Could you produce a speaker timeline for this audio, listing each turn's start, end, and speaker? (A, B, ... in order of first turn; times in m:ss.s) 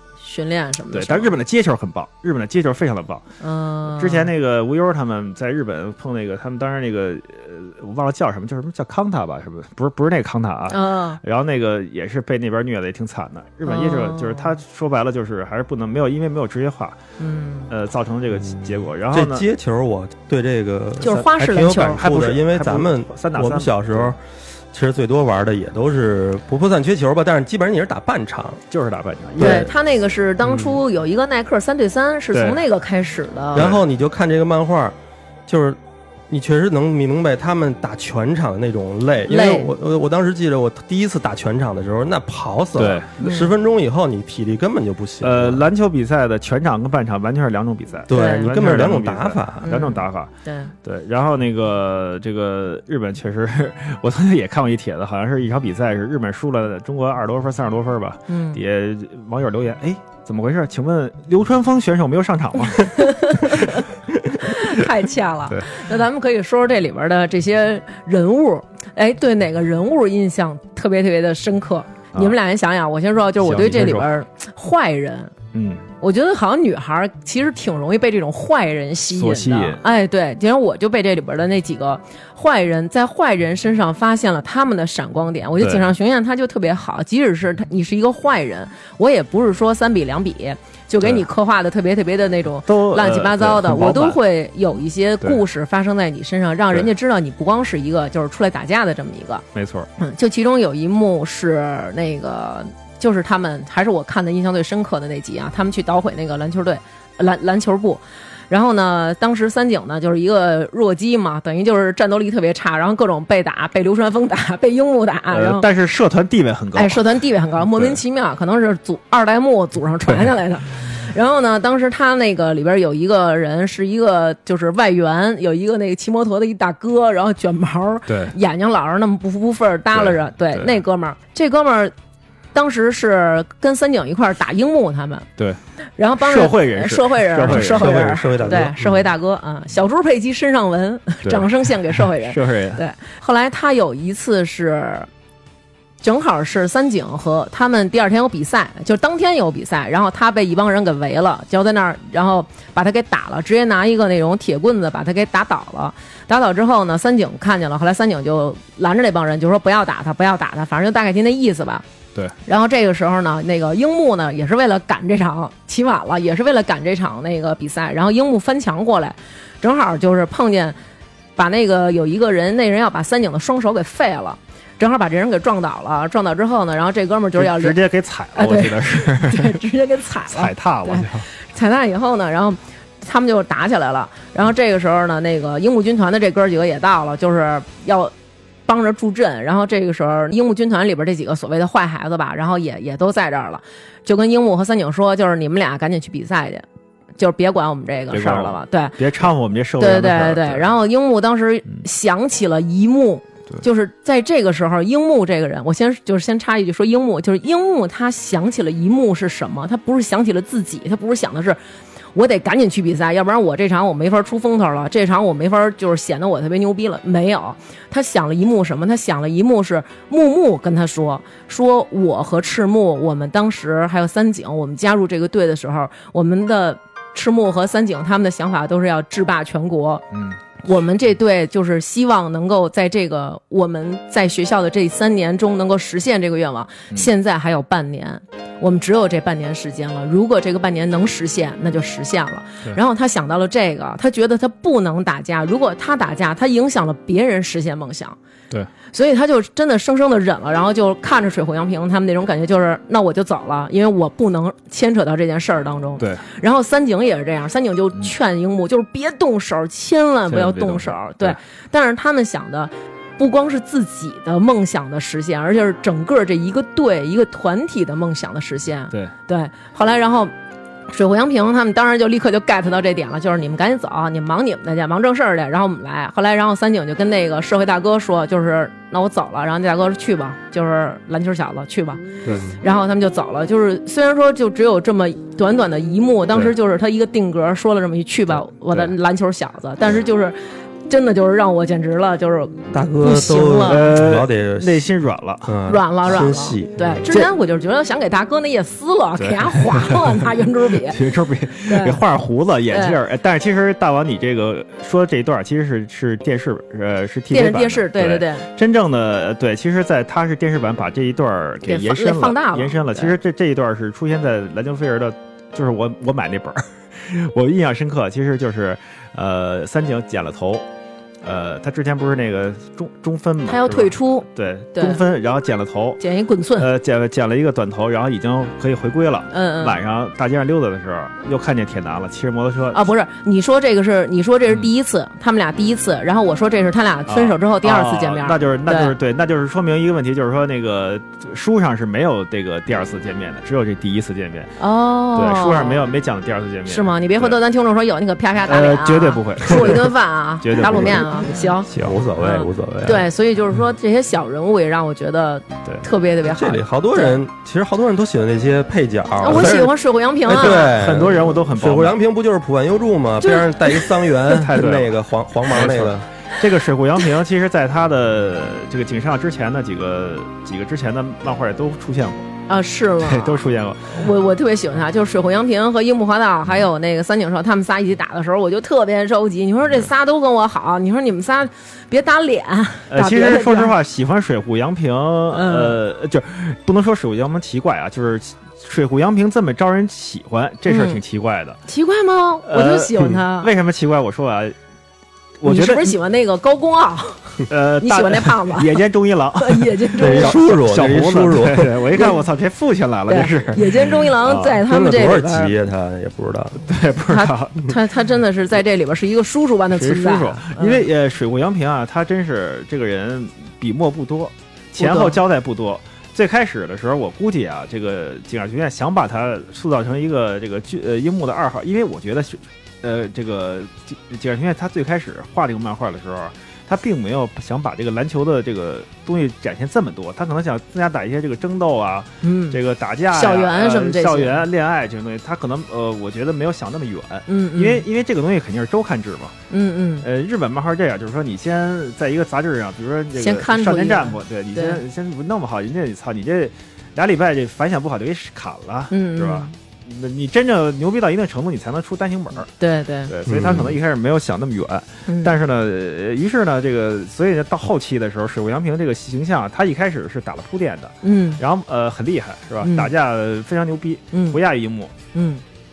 0:00.2-0:01.4 A
0:00.9-0:03.2 B
0:03.4-0:04.3 A
0:04.0-0:17.0 B
0:10.7-0:11.2 A
0:13.7-0:14.5 A
0:17.2-0:17.7 A
0:17.7-0:19.5 B
0:19.1-0:24.2 C
0:21.0-0:22.0 A
0:21.1-0:24.1 B
0:24.7-0:28.6 C
0:28.7-0:29.7 B
0:29.4-0:29.7 C
0:29.4-0:33.6 A
0:32.3-0:32.6 B
0:33.5-0:35.0 C
0:33.6-0:33.8 B
0:35.5-0:45.6 C
0:39.3-0:39.7 A
0:42.8-0:43.3 B
0:43.2-0:43.5 A
0:45.2-0:50.3 B
0:48.1-0:49.7 C
0:48.1-0:48.5 A
0:49.6-0:50.7 A
0:50.8-1:03.8 B
0:58.3-0:58.6 A
1:03.0-1:03.8 A
1:04.4-1:15.3 A
1:13.4-1:14.1 B
1:15.5-1:15.8 B
1:16.0-1:39.4 A
1:19.1-1:19.8 B
1:25.6-1:25.9 B
1:32.7-1:34.2 B
1:39.6-1:39.9 B
1:40.0-1:55.7 A
1:55.3-1:57.0 B
1:56.8-2:11.9 A
1:57.6-1:58.0 B
2:08.1-2:08.3 B
2:09.9-2:10.7 B
2:12.5-2:15.3 A
2:16.0-2:25.1 A
2:16.2-2:19.0 B
2:17.5-2:18.8 C
2:21.2-2:22.8 B
2:26.0-2:41.8 A
2:42.5-2:50.8 A
2:51.4-2:57.8 A
2:57.4-2:59.6 B
2:58.4-3:08.1 A
3:00.3-3:01.3 B
3:08.7-3:16.6 A
3:17.2-3:19.0 A
3:18.1-3:20.7 B
3:19.8-3:31.6 A
3:32.1-3:50.0 A
3:50.1-3:50.4 B
3:50.6-4:08.2 A
4:08.9-4:30.3 A
4:20.3-4:21.4 B
4:30.9-4:42.0 A
4:42.6-4:53.9 A
4:52.7-4:54.9 C
4:53.7-4:55.5 B
4:55.4-4:56.9 C
4:55.7-5:01.0 A
4:57.0-4:57.3 B
4:59.2-5:00.2 B
5:00.9-5:20.6 B
5:01.7-5:02.0 A
5:02.7-5:03.0 A
5:07.3-5:08.5 A
5:11.6-5:13.1 A
5:21.2-5:26.0 B
5:23.5-5:25.0 A
5:26.0-5:26.7 A
5:26.6-5:32.9 B
5:29.3-5:29.8 A
5:32.7-5:38.9 A
5:37.1-5:44.6 B
5:44.6-5:45.8 A
5:45.2-5:47.4 B
5:46.7-5:57.2 A
5:48.5-5:51.1 B
5:51.7-5:52.0 B
5:51.8-5:53.0 C
5:56.3-5:59.8 C
5:59.2-6:00.7 A
5:59.3-5:59.6 B
6:00.3-6:06.1 C
6:00.3-6:02.0 B
6:03.2-6:03.8 A
6:04.3-6:12.3 B
6:12.5-6:23.7 A
6:13.0-6:14.0 B
6:22.9-6:31.6 B
6:25.3-6:25.8 A
6:30.7-6:31.0 A
6:31.7-6:33.5 A
6:32.5-6:34.6 B
6:35.4-6:36.0 B
6:35.4-6:38.8 A
6:37.5-6:44.6 B
6:39.4-6:40.4 A
6:40.0-6:41.8 C
6:43.1-6:45.5 A
6:44.6-6:46.7 C
6:46.6-6:47.7 B
6:47.1-6:50.8 A
6:49.7-7:19.4 B
6:54.8-6:55.2 A
7:12.2-7:12.6 A
7:13.1-7:14.4 A
7:17.3-7:17.8 A
7:19.5-7:20.1 A
7:20.0-7:32.5 B
7:23.2-7:24.8 A
7:28.9-7:29.5 A
7:32.6-7:33.1 A
7:33.1-7:45.0 B
7:33.3-7:33.8 C
7:35.1-7:35.3 A
7:41.0-7:41.4 A
7:42.6-7:42.9 A
7:44.1-7:44.4 A
7:45.1-7:45.4 A